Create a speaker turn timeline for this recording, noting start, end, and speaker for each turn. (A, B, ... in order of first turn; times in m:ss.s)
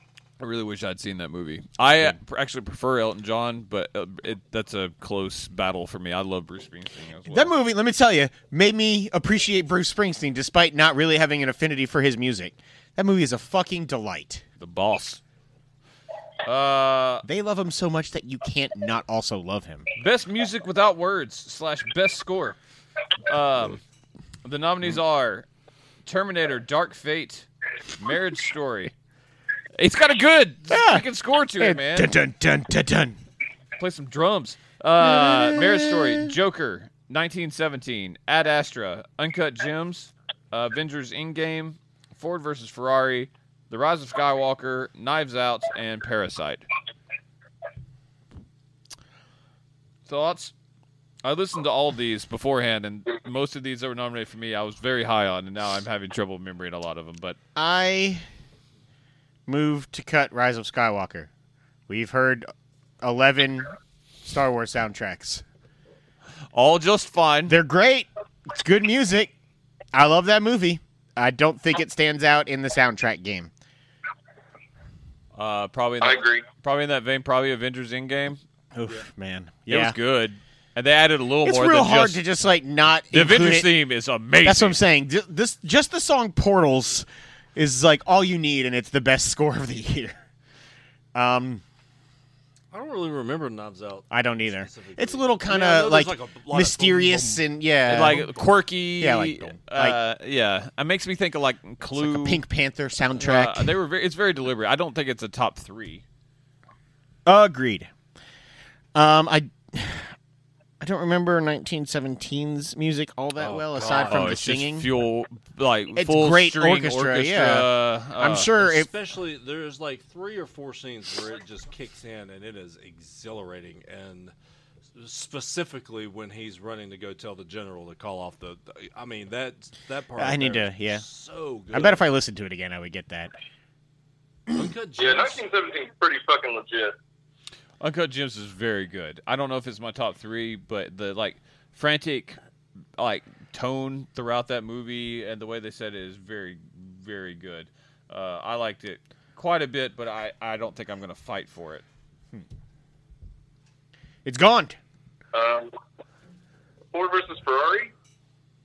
0:00.4-0:07.5 A
0:07.3-0:14.4 B
0:14.6-0:15.2 A
0:16.4-0:17.2 A
0:17.2-0:19.9 B
0:20.0-0:22.6 A
0:23.3-0:23.8 A
0:24.4-0:25.4 A
0:26.0-0:28.9 A
0:29.8-0:32.1 A
0:30.7-0:31.0 B
0:31.6-0:33.2 B
0:33.8-0:46.6 A
0:35.0-0:36.3 B
0:50.0-0:50.5 A
0:51.2-0:57.4 A
0:57.5-0:58.2 B
0:59.5-1:01.3 B
1:01.9-1:02.5 B
1:03.0-1:05.4 B
1:06.5-1:07.6 A
1:07.5-1:09.3 B
1:09.9-1:13.5 B
1:15.3-1:18.4 A
1:16.0-1:16.4 C
1:18.7-1:20.0 B
1:19.7-1:22.2 A
1:21.4-1:23.7 B
1:23.1-1:24.8 A
1:24.4-1:30.2 B
1:31.1-1:31.6 B
1:32.7-1:38.5 D
1:34.1-1:38.3 B
1:37.9-1:42.4 A
1:39.0-1:40.0 B
1:42.0-1:43.7 B
1:43.2-1:46.0 A
1:47.2-1:47.9 B
1:48.9-1:50.1 B
1:50.8-1:54.9 B
1:53.4-1:54.4 D
1:54.0-1:58.5 A
1:55.9-1:58.9 B
1:58.5-2:04.3 D
2:05.0-2:12.1 D
2:10.2-2:11.0 B
2:11.7-2:13.3 B
2:14.5-2:15.4 D
2:15.0-2:17.0 C
2:17.8-2:22.4 A
2:23.0-2:31.8 A
2:34.2-2:34.8 B
2:35.3-2:35.7 C
2:36.9-2:37.9 C